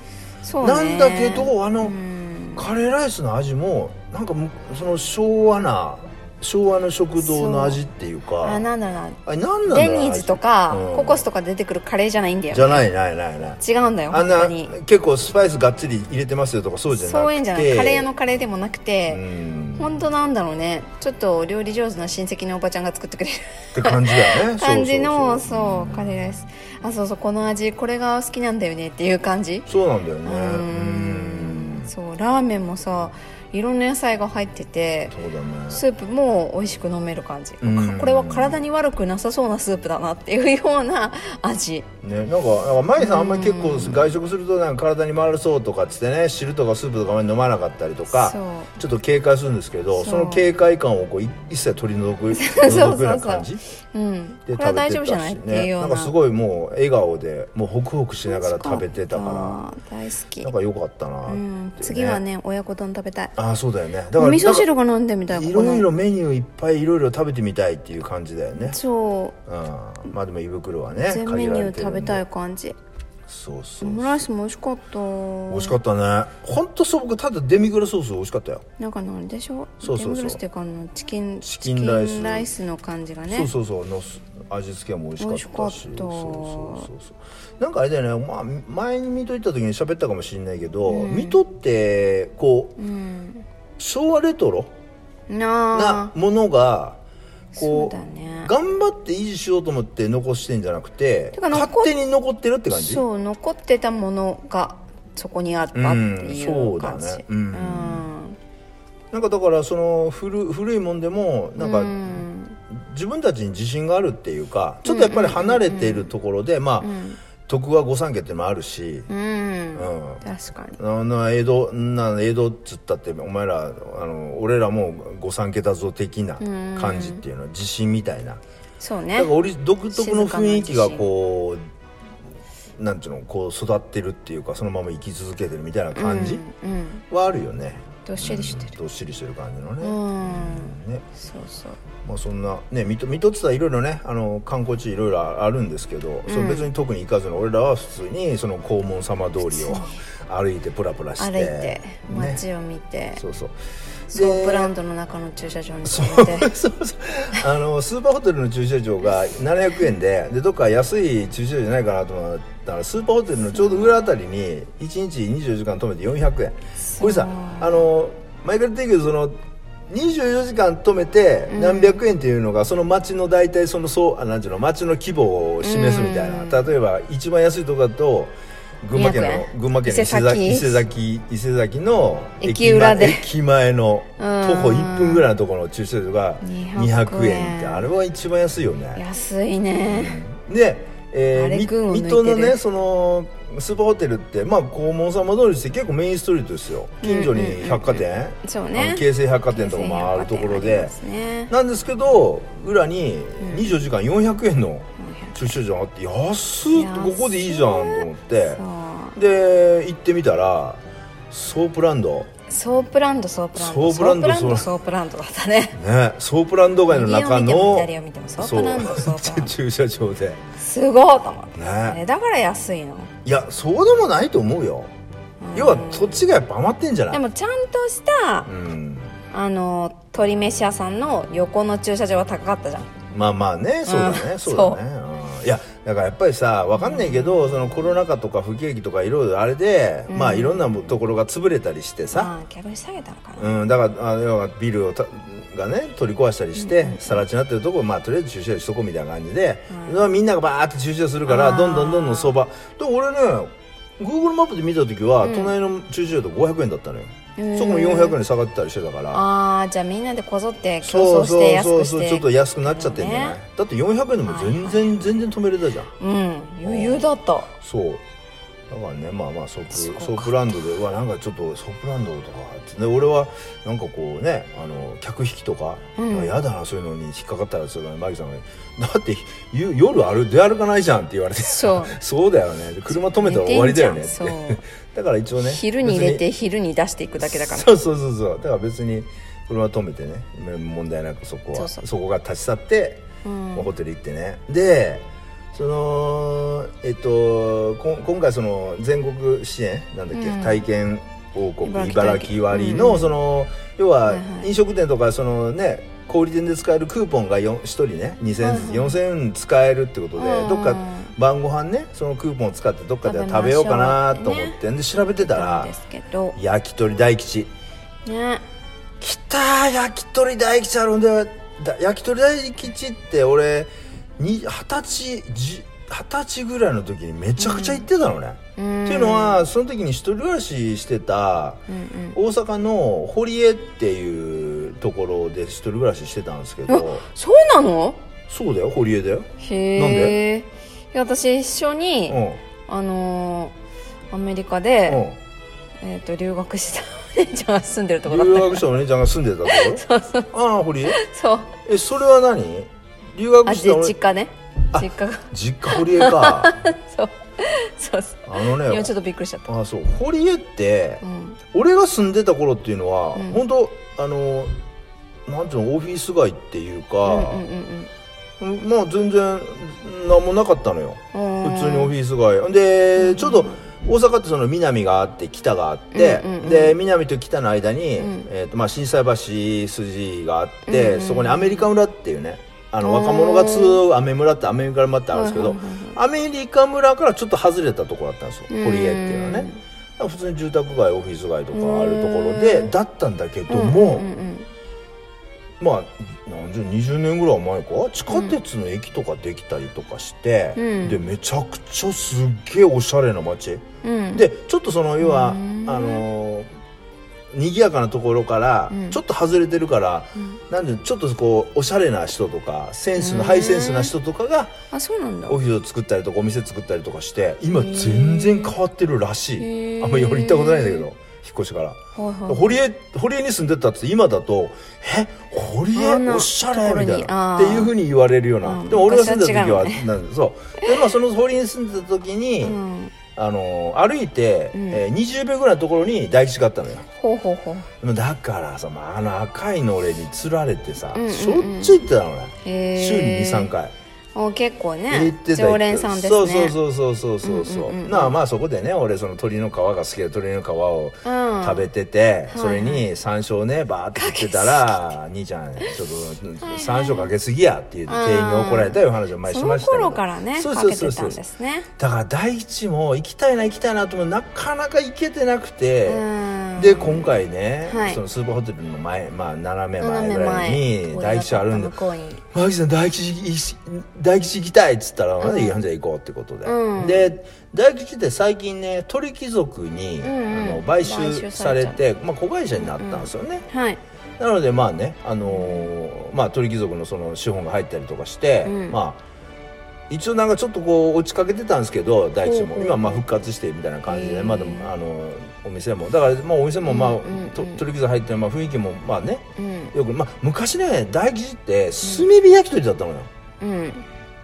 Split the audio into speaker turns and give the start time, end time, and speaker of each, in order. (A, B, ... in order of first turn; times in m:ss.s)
0:00.4-0:02.7 A
0:00.6-0:02.0 B
0:02.6-0:08.7 B
0:07.2-0:07.8 A
0:08.4-0:12.9 A
0:09.2-0:11.2 B
0:12.5-0:18.1 B
0:13.6-0:14.8 A
0:16.9-0:19.2 A
0:19.1-0:20.0 B
0:19.8-0:29.7 A
0:23.7-0:26.4 B
0:29.7-0:31.9 B
0:30.2-0:35.2 A
0:35.1-0:35.8 B
0:35.7-0:41.9 A
0:37.6-0:38.6 B
0:42.0-0:53.6 B
0:43.0-0:44.1 A
0:48.1-0:48.7 A
0:50.0-0:50.5 A
0:52.3-0:56.1 A
0:54.5-0:59.6 B
0:58.3-1:00.5 A
1:00.4-1:02.2 B
1:01.3-1:03.4 A
1:03.4-1:04.7 B
1:04.2-1:05.9 A
1:05.3-1:08.8 B
1:08.6-1:09.4 A
1:09.5-1:12.2 B
1:11.0-1:12.8 A
1:13.3-1:14.2 B
1:13.8-1:15.8 A
1:15.5-1:18.6 B
1:18.8-1:23.5 A
1:19.8-1:20.4 B
1:21.4-1:22.5 B
1:23.3-1:32.8 B
1:25.2-1:26.9 A
1:30.9-1:31.4 A
1:32.8-1:33.4 A
1:33.8-1:34.7 B
1:35.3-1:36.1 A
1:35.7-1:37.0 B
1:37.6-1:38.5 A
1:37.6-1:43.0 B
1:41.3-1:41.9 A
1:42.7-1:48.4 A
1:45.7-1:48.1 B
1:49.1-1:56.9 B
1:51.6-1:52.6 A
1:54.8-1:56.1 A
1:56.8-1:57.2 A
1:57.5-1:59.1 B
1:59.1-2:00.8 A
1:59.8-2:00.2 B
2:00.8-2:08.4 B
2:06.4-2:07.2 A
2:08.8-2:09.3 A
2:09.2-2:11.6 B
2:09.9-2:11.1 A
2:12.8-2:16.4 B
2:16.0-2:17.0 A
2:17.1-2:21.0 B
2:18.0-2:18.8 A
2:19.8-2:21.8 A
2:22.0-2:32.4 B
2:26.3-2:26.7 A
2:29.4-2:30.0 A
2:31.2-2:33.2 A
2:33.2-2:33.6 B
2:34.1-2:36.5 A
2:34.1-2:34.7 B
2:35.9-2:49.4 B
2:43.6-2:43.9 A
2:46.8-2:47.9 A
2:49.9-3:09.0 B
2:51.5-2:52.0 A
2:55.6-2:56.7 A
2:58.9-3:00.8 A
3:02.4-3:03.3 A
3:04.2-3:05.3 A
3:06.4-3:07.9 A
3:09.0-3:10.2 A
3:09.9-3:20.9 B
3:11.3-3:12.6 A
3:17.0-3:21.5 A
3:21.5-3:28.6 B
3:23.4-3:23.7 A
3:25.0-3:25.5 A
3:26.7-3:29.2 A
3:29.2-3:32.3 B
3:32.5-3:35.8 A
3:33.6-3:34.7 B
3:35.7-3:40.4 B
3:36.9-3:39.6 A
3:40.6-3:43.1 A
3:41.6-3:42.0 B
3:43.2-3:44.9 B
3:45.4-3:46.3 A
3:45.6-3:47.2 B
3:47.1-3:48.5 A
3:48.5-3:49.2 B
3:49.3-3:53.0 A
3:53.1-4:02.3 B
3:53.9-3:54.8 A
3:56.8-3:57.8 A
4:00.1-4:01.0 A
4:02.1-4:03.6 A
4:03.4-4:19.2 B
4:06.6-4:07.2 A
4:09.7-4:10.1 A
4:11.3-4:12.4 A
4:15.2-4:15.5 A
4:17.4-4:18.2 A
4:19.1-4:23.4 A
4:20.8-4:25.9 B
4:24.3-4:25.0 A
4:26.0-4:27.5 A
4:26.6-4:28.0 B
4:28.7-4:46.2 B
4:29.7-4:30.5 A
4:36.0-4:36.4 A
4:41.4-4:42.0 A
4:42.9-4:44.6 A
4:45.4-4:47.7 A
4:47.2-4:53.0 B
4:51.5-4:51.8 A
4:53.2-4:53.7 A
4:53.6-5:15.7 B
5:00.1-5:00.6 A
5:01.6-5:03.2 A
5:04.1-5:04.5 A
5:08.4-5:09.0 A
5:10.2-5:11.1 A
5:13.0-5:14.6 A
5:15.2-5:16.4 A
5:16.4-5:17.5 B
5:18.0-5:18.4 A
5:19.0-5:31.6 B
5:27.4-5:27.9 A
5:28.6-5:29.5 A
5:31.7-5:32.2 A
5:32.1-5:37.0 B
5:36.7-5:38.0 A
5:38.3-5:40.2 B
5:39.4-5:43.5 A
5:42.1-5:42.4 B
5:44.1-5:45.0 A
5:44.9-5:45.2 B
5:45.8-5:48.7 A
5:48.1-5:51.0 B
5:49.5-5:50.3 A
5:50.9-5:51.5 A
5:51.6-5:54.0 B
5:53.4-5:59.5 A
5:54.7-5:56.6 B
5:58.3-5:58.9 B
5:59.5-6:04.5 B
6:01.0-6:01.4 A
6:03.2-6:03.4 A
6:05.3-6:07.4 B
6:07.0-6:07.9 A
6:08.4-6:34.1 B
6:11.1-6:11.9 A
6:13.0-6:13.6 A
6:15.9-6:16.8 A
6:18.0-6:18.3 A
6:20.7-6:21.7 A
6:22.8-6:23.8 A
6:25.1-6:26.0 A
6:28.5-6:29.6 A
6:31.5-6:32.7 A
6:33.5-6:34.5 A
6:35.6-6:43.6 B
6:38.1-6:38.4 A
6:40.6-6:41.0 A
6:43.8-6:44.3 A
6:44.1-6:46.5 B
6:45.0-6:46.0 A
6:47.3-6:54.5 B
6:48.7-6:49.0 A
6:53.0-6:53.9 A
6:54.7-6:55.4 A
6:55.3-7:12.6 B
6:57.5-6:58.6 A
6:59.4-7:00.9 A
7:02.0-7:02.6 A
7:05.7-7:07.7 A
7:08.4-7:09.9 A
7:12.4-7:12.9 A
7:13.2-7:16.9 B
7:14.5-7:14.8 A
7:17.0-7:17.7 A
7:17.8-7:23.7 B
7:20.9-7:21.8 A
7:22.4-7:23.5 A
7:24.2-7:26.6 A
7:24.9-7:41.2 B
7:27.2-7:28.2 A
7:31.0-7:31.7 A
7:32.3-7:32.9 A
7:34.0-7:34.9 A
7:36.4-7:37.1 A
7:37.9-7:41.7 A
7:41.8-7:46.0 B
7:45.8-7:48.0 A
7:46.6-7:51.8 B
7:49.8-7:52.2 A
7:52.3-8:03.4 B
7:55.2-7:55.6 A
7:56.4-7:57.1 A
8:00.0-8:01.8 A
8:02.6-8:03.8 A
8:04.2-8:09.0 B
8:05.3-8:05.7 A
8:08.4-8:08.8 A
8:09.9-8:23.1 B
8:12.2-8:13.0 A
8:13.9-8:14.7 A
8:16.6-8:17.6 A
8:19.4-8:19.7 A
8:21.8-8:22.1 A
8:23.4-8:23.8 A